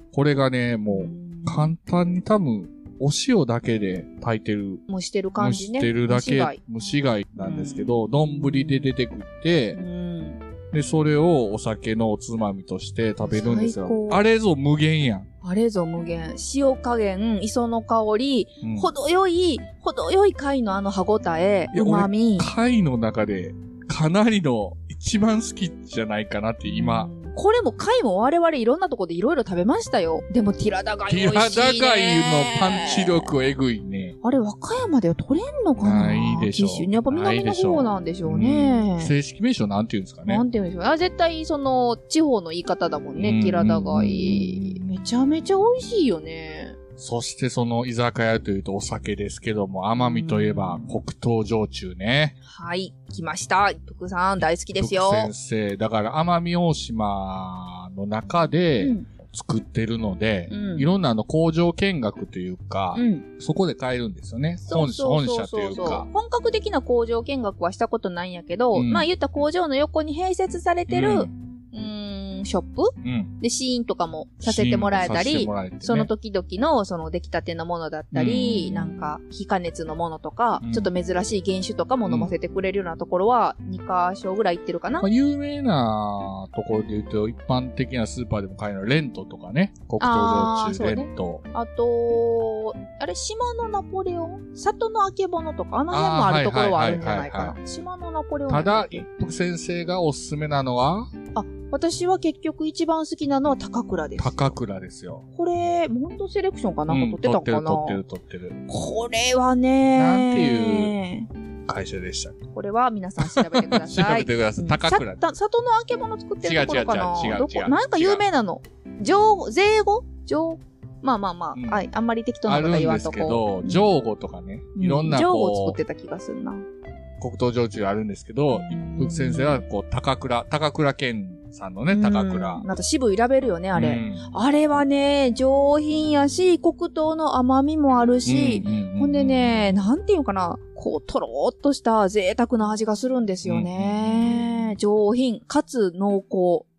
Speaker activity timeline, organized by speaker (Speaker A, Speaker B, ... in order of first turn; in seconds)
Speaker A: 0.1-4.8, 5.4-9.8, 10.7-15.3, 18.6-18.9, 21.7-27.1, 31.1-34.1, 35.8-40.4, 43.2-45.0, 47.0-52.4, 54.8-66.1, 68.7-69.1, 70.9-71.3, 73.0-73.3, 74.4-76.1, 78.1-79.1, 80.6-80.9, 82.1-82.3, 85.0-91.4, 95.9-97.6, 98.5-101.1, 104.2-105.2, 106.9-108.6, 110.0-111.0, 111.7-112.4, 113.2-115.2, 116.4-118.2, 121.5-121.9, 122.5-125.8, 127.2-132.7, 133.7-134.2, 138.3-139.8, 143.4-144.8
Speaker B: 0.9-1.7, 4.9-6.6, 7.4-8.9, 9.7-10.4, 13.3-14.2, 15.4-22.5, 26.6-33.3, 34.2-39.1, 40.3-46.8, 50.0-51.0, 52.4-55.3, 58.8-59.1, 60.5-60.9, 63.0-63.3, 64.7-85.1, 90.0-99.0, 101.3-104.5, 105.3-108.0, 108.7-111.3, 112.5-123.9, 124.8-126.6, 128.5-129.6, 131.9-146.7